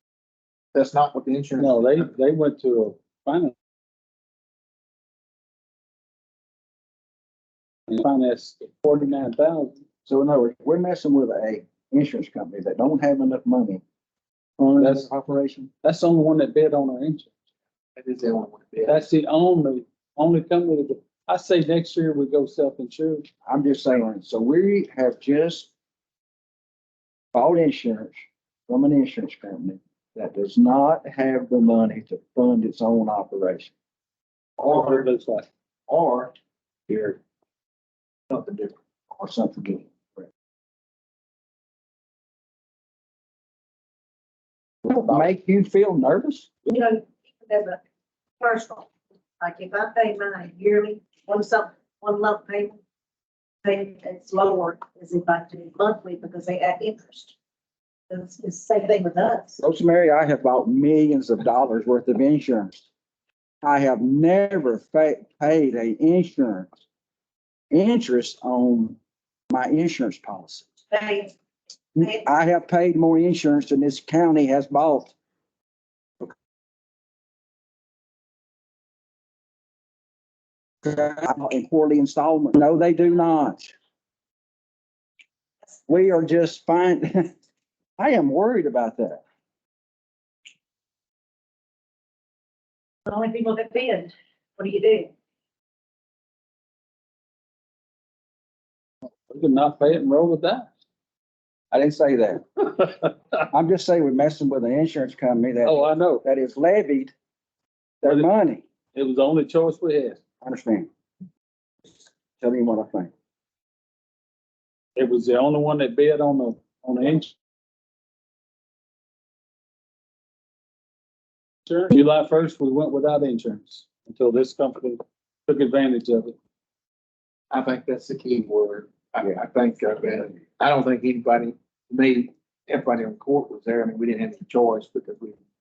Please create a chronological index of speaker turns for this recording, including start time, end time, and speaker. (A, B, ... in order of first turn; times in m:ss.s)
0:00.7-0:02.1 A
0:01.6-0:03.5 B
0:07.9-0:09.8 B
0:10.1-0:13.8 C
0:14.6-0:15.1 B
0:14.8-0:15.7 C
0:15.8-0:17.3 B
0:18.0-0:19.0 A
0:18.9-0:23.3 B
0:23.5-0:25.7 C
0:27.3-0:33.7 C
0:34.6-0:35.0 C
0:34.7-0:35.5 B
0:35.9-0:36.3 C
0:36.9-0:37.2 C
0:38.3-0:38.7 A
0:39.1-0:40.2 C
0:44.8-0:46.6 C
0:46.7-0:47.8 D
0:48.4-0:52.8 D
0:53.6-0:57.4 D
0:58.1-0:59.6 D
0:59.6-1:02.9 C
1:03.6-1:06.7 C
1:07.7-1:09.0 C
1:09.5-1:10.7 C
1:10.9-1:11.3 D
1:12.0-1:15.2 C
1:20.8-1:23.7 C
1:25.9-1:27.3 C
1:28.0-1:29.2 C
1:33.1-1:35.1 D
1:39.3-1:40.7 B
1:41.7-1:42.4 C
1:43.5-1:47.1 C
1:45.6-1:46.2 B
1:48.0-1:48.6 C
1:48.9-1:50.2 B
1:50.4-1:50.9 C
1:51.9-1:53.1 C
1:55.0-1:57.3 B
2:01.7-2:06.4 B
2:07.5-2:15.4 A